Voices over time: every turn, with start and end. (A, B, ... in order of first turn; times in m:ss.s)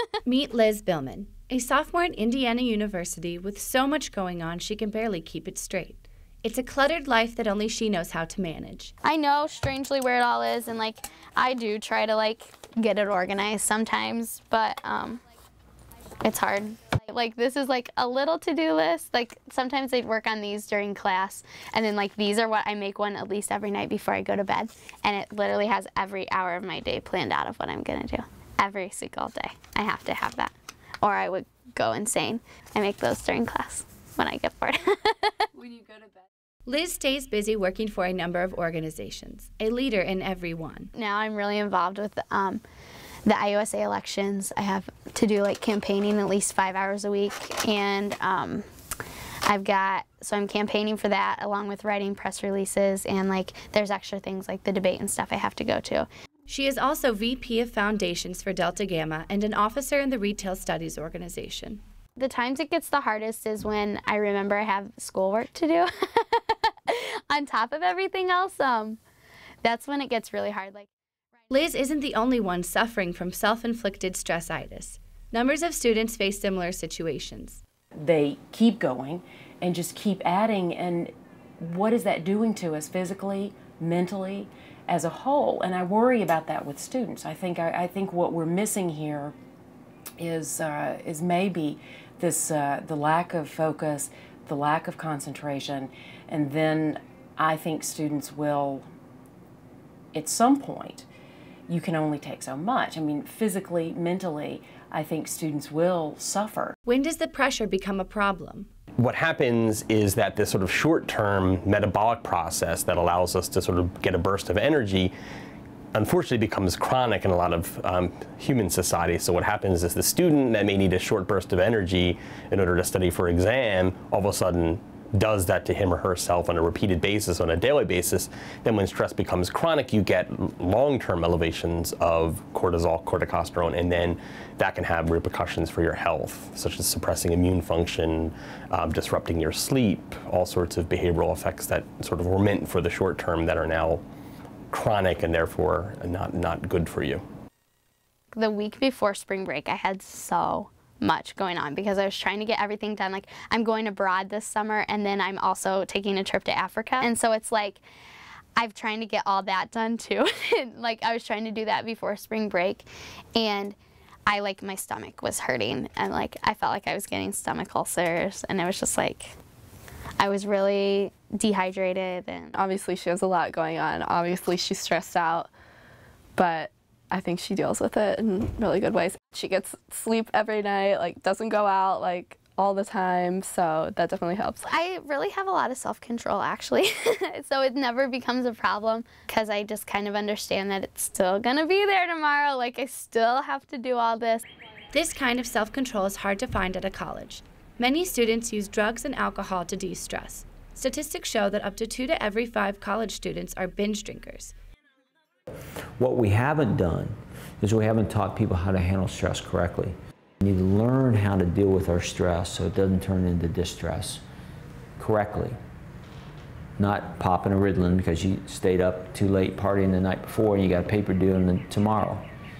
0:00.3-0:08.9 A
0:09.0-0:15.2 B
0:16.2-0:35.5 B
0:36.7-0:40.9 A
0:41.0-0:42.6 B
0:43.3-0:48.6 B
0:49.5-0:56.1 B
0:56.5-1:01.8 A
1:02.2-1:09.0 B
1:09.6-1:10.9 B
1:11.5-1:17.6 A
1:18.0-1:29.4 C
1:30.2-1:38.9 C
1:40.1-1:41.1 C
1:41.7-1:46.8 C
1:46.9-1:48.7 A
1:49.0-1:55.1 D
1:56.0-2:24.0 D
2:24.7-2:27.2 D
2:28.3-2:37.8 B
2:38.6-2:43.8 B
2:44.3-2:49.3 B
2:50.2-2:52.5 B
2:52.5-2:55.5 E
2:56.4-3:04.7 E
3:04.7-3:14.4 B
3:14.9-3:24.5 A
3:26.0-3:34.2 F
3:35.0-3:35.6 F
3:36.8-3:42.3 F